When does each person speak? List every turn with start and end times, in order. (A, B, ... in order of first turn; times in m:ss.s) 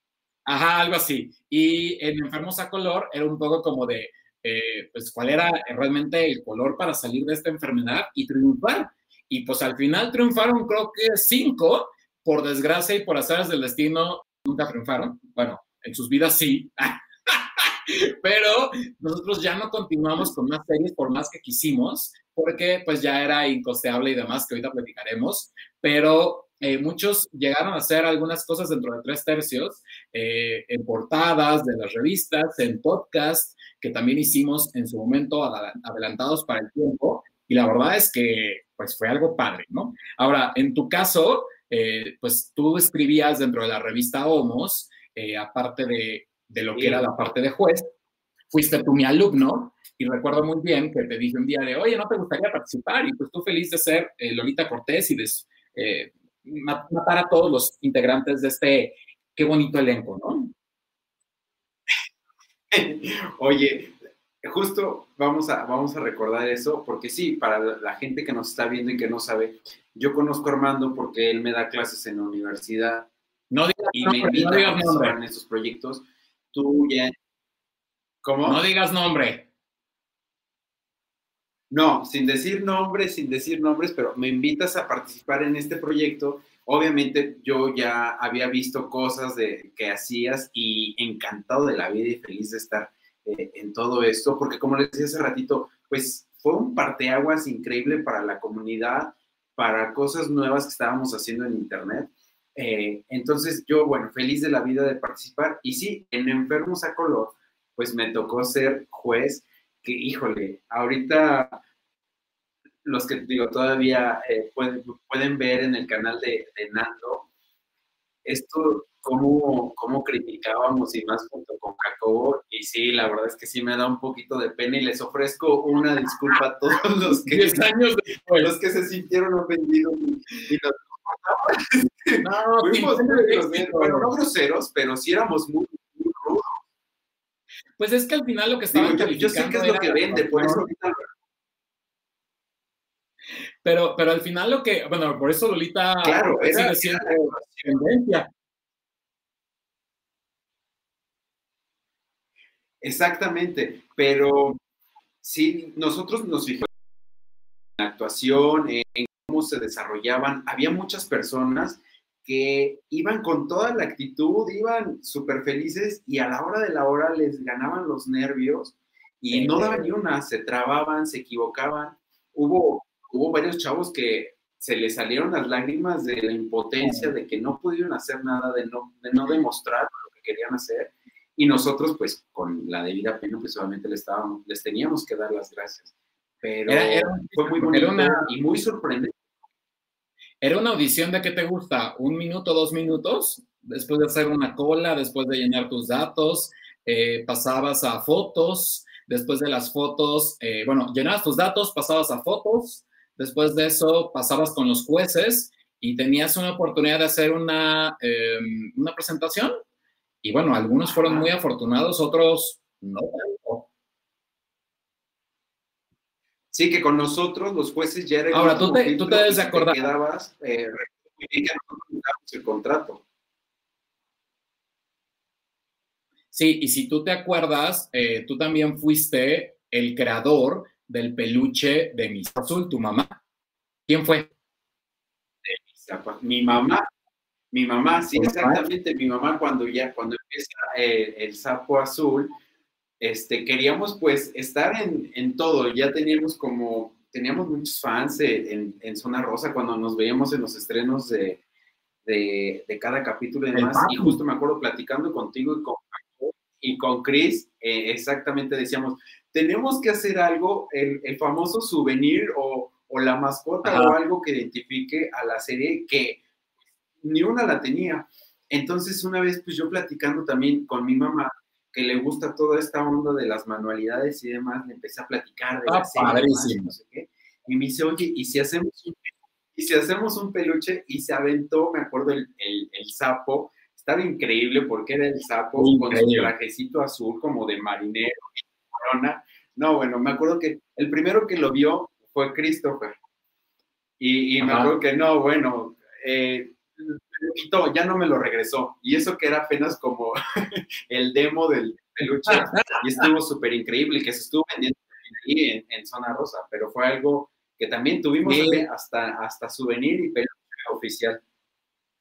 0:00.5-0:47.9 A
0:46.8-0:47.2 B
0:48.5-1:00.5 A
1:02.7-1:13.1 B
1:13.5-1:15.2 A
1:14.0-1:17.2 B
1:18.2-1:18.6 B
1:18.4-1:19.5 A
1:21.7-1:51.6 B
1:52.8-1:57.3 B
1:58.2-2:07.6 B
2:07.3-2:08.5 A
2:08.4-2:16.5 B
2:12.2-2:14.1 A
2:17.8-2:20.7 A
2:18.7-2:21.1 B
2:23.6-2:28.3 A
2:26.0-2:27.6 B
2:32.8-2:34.6 B
2:35.2-2:36.7 B
2:37.8-3:05.9 B
2:49.3-2:50.0 A
2:56.8-2:57.1 A
3:06.4-3:09.2 B
3:06.7-3:08.3 A
3:10.4-3:29.6 A
3:30.2-3:33.7 A
3:36.5-3:43.0 B
3:38.3-3:39.8 A
3:46.3-3:53.2 A
3:53.9-3:54.3 A
3:55.5-3:56.9 B
3:57.5-4:02.4 B
3:58.2-3:58.6 A
4:03.0-4:11.4 B
4:12.0-4:26.2 B
4:13.5-4:14.2 A
4:23.6-4:24.0 A
4:27.0-4:53.0 B
4:35.7-4:36.7 A
4:45.6-4:46.3 A
4:54.0-5:11.2 B
4:54.4-4:54.7 A
5:02.3-5:02.8 A
5:08.2-5:08.6 A